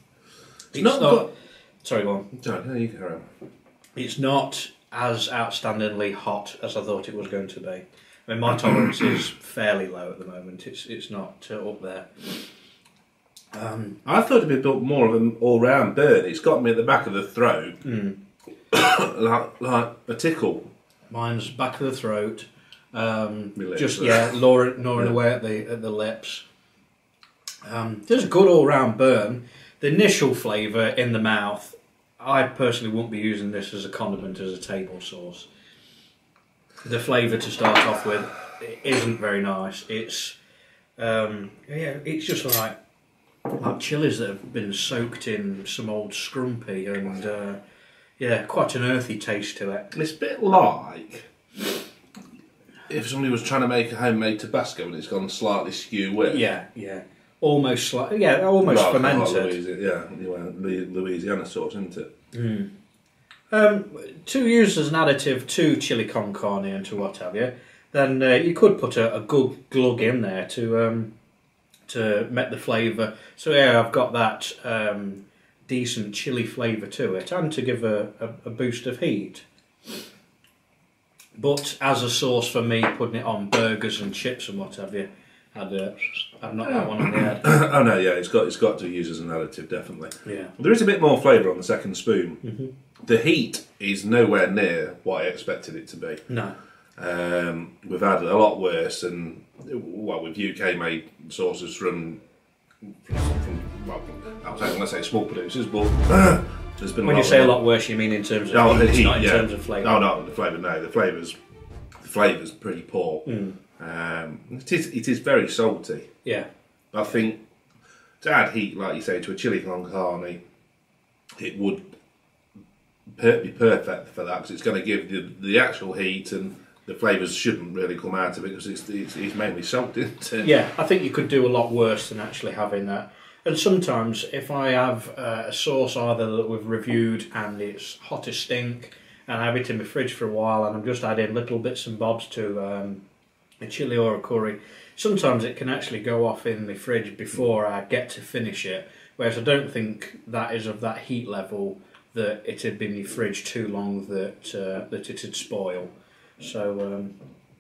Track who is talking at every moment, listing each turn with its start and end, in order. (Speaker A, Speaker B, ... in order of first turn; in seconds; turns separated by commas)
Speaker A: 0.7-1.3, Speaker B: 0.7-1.3, Speaker B: 1.8-2.3, Speaker A: 2.3-3.3, Speaker B: 4.0-12.5, Speaker B: 13.5-14.0, Speaker A: 14.1-17.8, Speaker B: 17.8-18.2, Speaker A: 18.7-20.7, Speaker B: 21.1-26.4, Speaker A: 23.6-24.4, Speaker B: 27.6-35.5, Speaker B: 36.8-40.4, Speaker B: 41.0-42.8, Speaker B: 43.5-47.6, Speaker B: 48.2-49.9, Speaker A: 49.9-51.3, Speaker A: 52.9-56.4, Speaker B: 56.2-59.6, Speaker A: 58.6-62.1, Speaker B: 62.3-62.7, Speaker B: 63.5-71.1, Speaker B: 71.9-79.4, Speaker B: 81.4-87.5, Speaker A: 86.6-92.4, Speaker B: 90.2-90.5, Speaker B: 92.4-92.7, Speaker A: 93.0-96.2, Speaker B: 96.3-96.6, Speaker A: 97.0-102.2, Speaker A: 102.8-107.6, Speaker B: 107.0-109.9, Speaker A: 108.5-111.4, Speaker A: 112.0-113.2, Speaker B: 113.2-113.6, Speaker A: 113.8-116.1, Speaker A: 116.9-117.4, Speaker A: 118.2-120.4, Speaker A: 121.4-121.9, Speaker A: 123.1-130.5, Speaker B: 130.4-143.0, Speaker B: 143.6-157.2